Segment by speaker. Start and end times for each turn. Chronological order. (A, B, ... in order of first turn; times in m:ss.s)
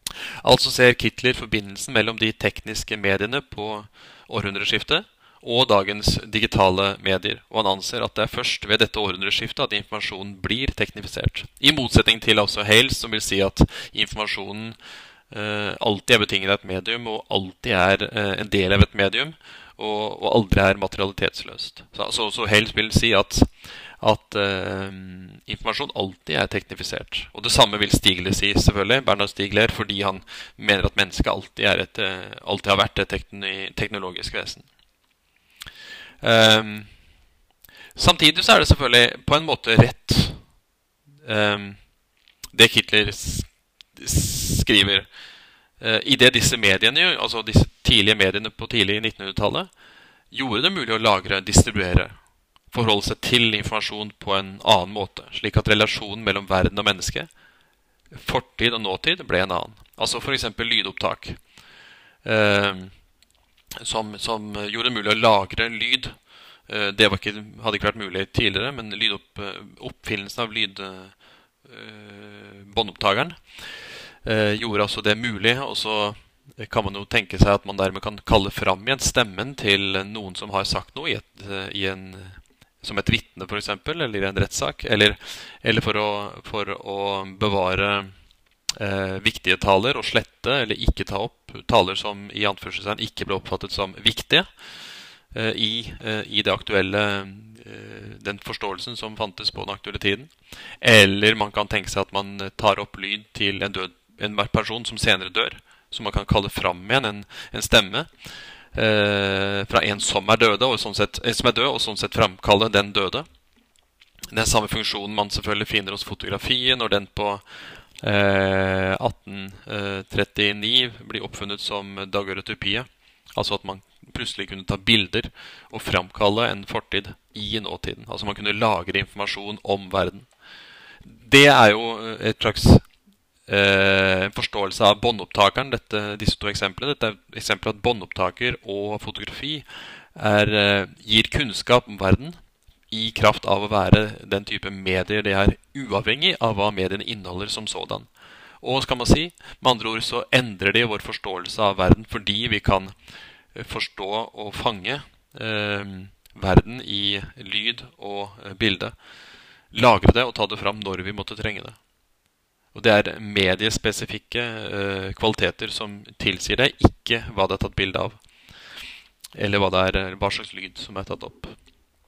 0:00.4-0:14.8 A
0:15.3-0:23.5 A
0:24.0-0:34.7 A
0:36.2-0:36.9 A
0:38.0-0:40.4 A
0:41.2-0:41.8 A
0:42.5-0:45.1 A
0:45.8-0:49.7 A
0:50.3-0:52.1 A
0:52.7-0:57.3 A
0:58.1-1:01.4 A
1:02.2-1:02.9 A
1:03.8-1:06.2 A
1:06.7-1:13.4 A
1:14.2-1:28.1 A
1:28.8-1:34.5 A
1:35.3-1:40.3 A
1:40.8-1:48.1 A
1:48.7-1:53.2 A
1:54.3-1:57.4 A
1:58.0-2:10.3 A
2:11.0-2:12.8 A
2:13.5-2:22.4 A
2:22.9-2:28.1 A
2:28.6-2:32.9 A
2:33.5-2:38.9 A
2:39.7-2:41.8 A
2:42.7-2:48.2 A
2:49.3-2:51.6 A